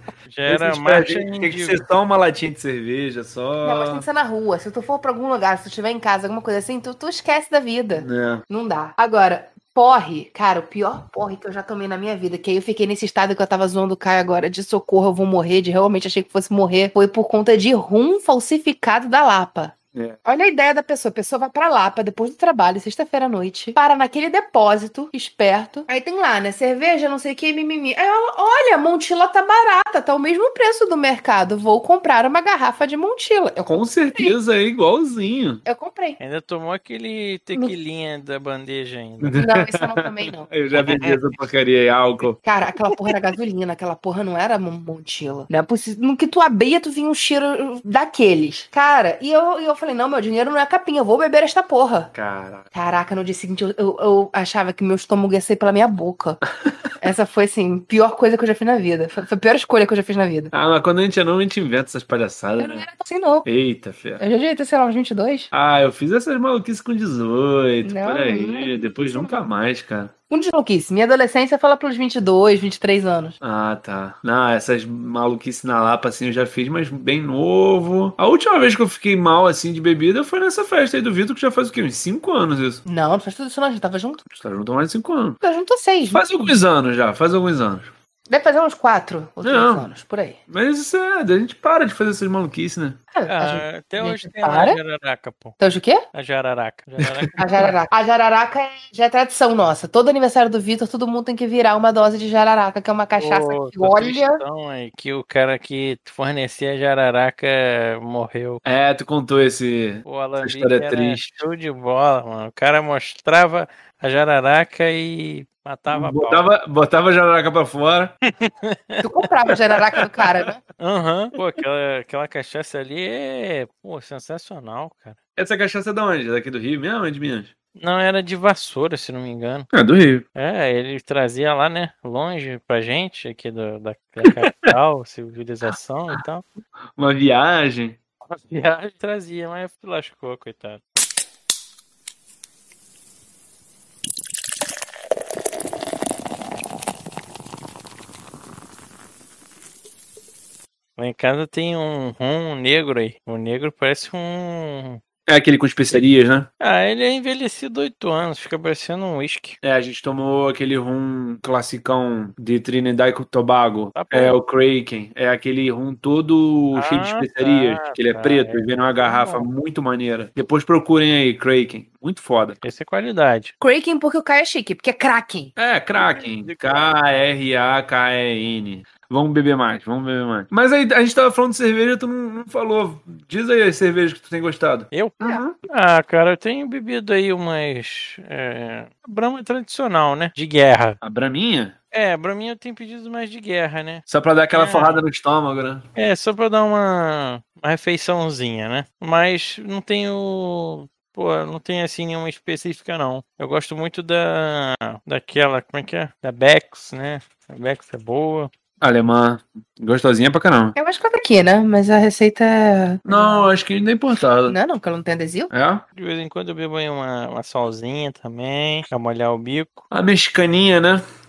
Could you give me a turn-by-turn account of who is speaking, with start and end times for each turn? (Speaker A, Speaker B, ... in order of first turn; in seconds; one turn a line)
Speaker A: 0.3-1.8
Speaker B: 0.5-4.0
Speaker C: 3.6-34.4
Speaker B: 7.9-8.4
Speaker B: 33.6-35.6
Speaker C: 35.6-36.2
Speaker A: 36.2-39.4
Speaker B: 39.2-42.4
Speaker C: 39.4-40.5
Speaker A: 40.8-41.2
Speaker C: 42.4-52.1
Speaker B: 52.1-52.7
Speaker C: 52.7-56.4
Speaker C: 57.0-60.5
Speaker B: 60.5-62.8
Speaker C: 62.6-63.5
Speaker B: 63.4-64.2
Speaker C: 64.2-65.5
Speaker B: 65.5-70.1
Speaker C: 67.8-69.3
Speaker C: 70.3-73.3
Speaker B: 73.4-82.8
Speaker C: 82.8-84.2
Speaker B: 84.3-85.4
Speaker C: 85.4-86.5
Speaker B: 86.1-87.9
Speaker C: 88.3-90.4
Speaker B: 89.4-89.9
Speaker B: 90.5-93.0
Speaker C: 93.1-94.8
Speaker A: 93.3-95.5
Speaker C: 95.6-96.0
Speaker A: 96.1-97.7
Speaker B: 97.0-97.3
Speaker C: 97.3-104.4
Speaker A: 103.2-108.6
Speaker B: 108.6-111.4
Speaker A: 110.0-116.5
Speaker B: 115.9-118.1
Speaker A: 118.4-119.0
Speaker C: 119.0-120.6
Speaker B: 120.0-120.5
Speaker A: 120.8-125.2
Speaker B: 125.4-127.5
Speaker A: 127.8-129.7
Speaker B: 129.7-130.2
Speaker A: 130.3-136.4
Speaker B: 134.4-134.7
Speaker B: 137.0-138.0
Speaker A: 138.2-140.8
Speaker A: 151.0-155.0
Speaker B: 155.3-156.5
Speaker A: 156.6-159.6
Speaker B: 159.6-172.6
Speaker A: 163.9-164.4
Speaker A: 166.7-169.5
Speaker A: 172.6-173.5
Speaker C: 173.6-175.5
Speaker B: 175.6-185.6
Speaker A: 175.9-176.9
Speaker A: 184.9-191.0
Speaker B: 191.0-191.7
Speaker A: 191.9-195.0
Speaker B: 194.1-195.8
Speaker A: 195.9-208.5
Speaker B: 208.8-210.7
Speaker C: 210.7-213.5
Speaker B: 213.1-214.6
Speaker C: 214.5-215.5
Speaker B: 215.5-215.8
Speaker A: 215.9-219.8
Speaker B: 219.9-221.0